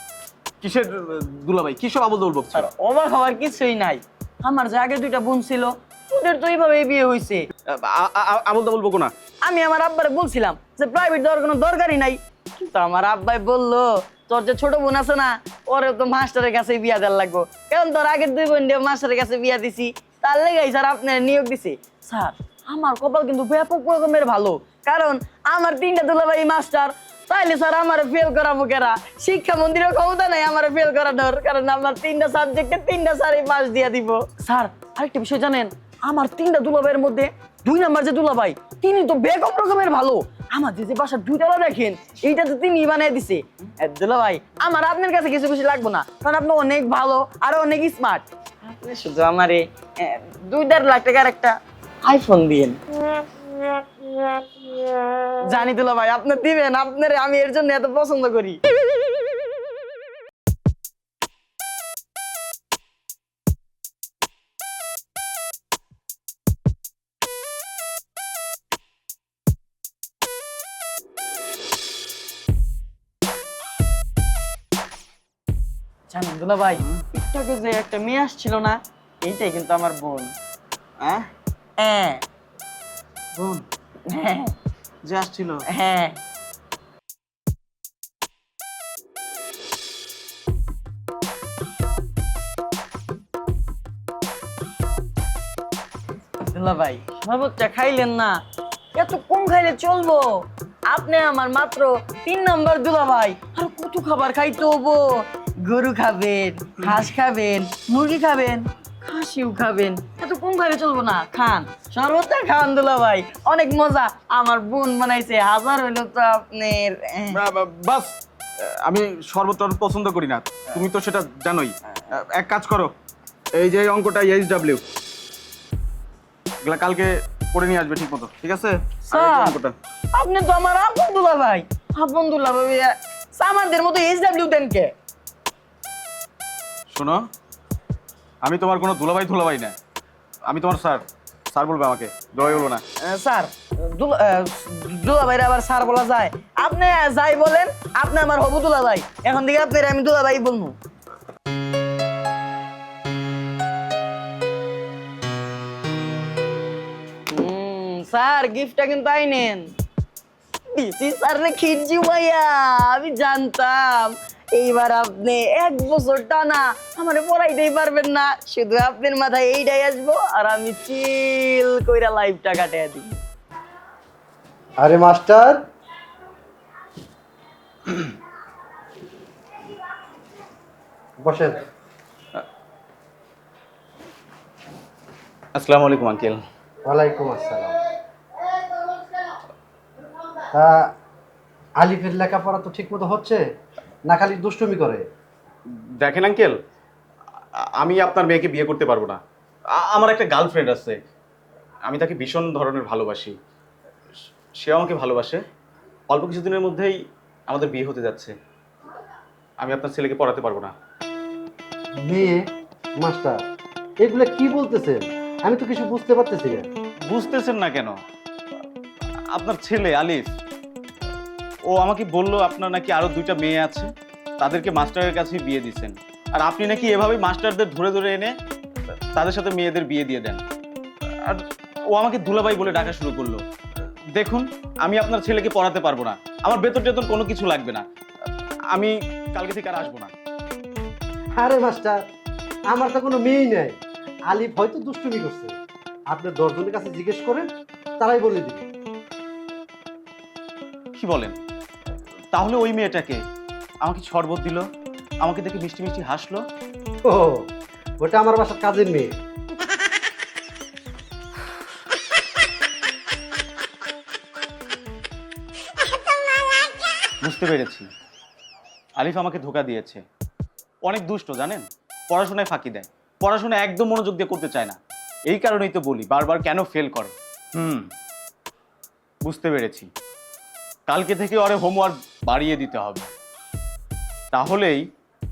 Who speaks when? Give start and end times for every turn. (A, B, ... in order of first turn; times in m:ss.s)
0:00.6-0:02.7 A
0:02.5-0:07.5 B
0:07.7-0:09.1 A
0:09.4-0:52.8 B
0:55.4-0:58.6 B
1:16.1-1:20.3 B
1:16.8-1:17.0 A
1:21.0-1:21.3 A
1:21.8-1:22.2 B
1:23.4-1:23.6 A
1:24.1-1:24.5 B
1:25.0-1:25.6 A
1:25.7-1:26.2 B
1:36.4-1:38.4 B
1:38.9-1:57.4 B
1:57.3-2:02.9 A
2:03.5-2:04.8 A
2:06.6-2:09.7 A
2:09.1-2:09.6 B
2:10.1-2:14.9 B
2:16.9-2:17.2 A
2:18.4-2:19.7 A
2:20.4-2:22.8 A
2:23.0-2:30.7 B
2:37.3-2:39.7 B
2:40.7-2:53.2 B
2:54.8-2:55.6 C
3:01.2-3:01.6 C
3:05.5-3:06.4 A
3:06.8-3:07.8 C
3:10.5-3:10.9 C
3:11.8-3:13.5 C
3:14.0-3:15.0 C
3:16.0-3:16.6 A
3:17.8-3:19.2 A
3:19.7-3:21.0 A
3:21.8-3:23.4 A
3:24.6-3:25.4 A
3:26.1-3:27.0 A
3:27.5-3:28.3 A
3:29.6-3:30.7 A
3:32.0-3:32.4 C
3:33.0-3:33.4 C
3:34.0-3:36.7 C
3:37.1-3:38.0 A
3:39.3-3:40.3 A
3:41.7-3:48.3 A
3:49.1-3:50.4 A
3:51.2-3:53.4 A
3:54.1-3:57.8 A
3:58.7-4:00.1 A
4:01.3-4:02.0 C
4:02.7-4:03.8 C
4:04.3-4:05.5 C
4:06.1-4:08.6 C
4:11.0-4:11.4 A
4:12.3-4:13.2 A
4:13.8-4:14.6 A
4:15.2-4:16.4 A
4:17.0-4:17.4 C
4:18.0-4:19.1 C
4:27.2-4:27.9 A
4:29.0-4:30.0 A
4:30.8-4:37.8 A
4:39.2-4:39.9 A
4:40.9-4:43.1 A
4:44.3-4:44.8 A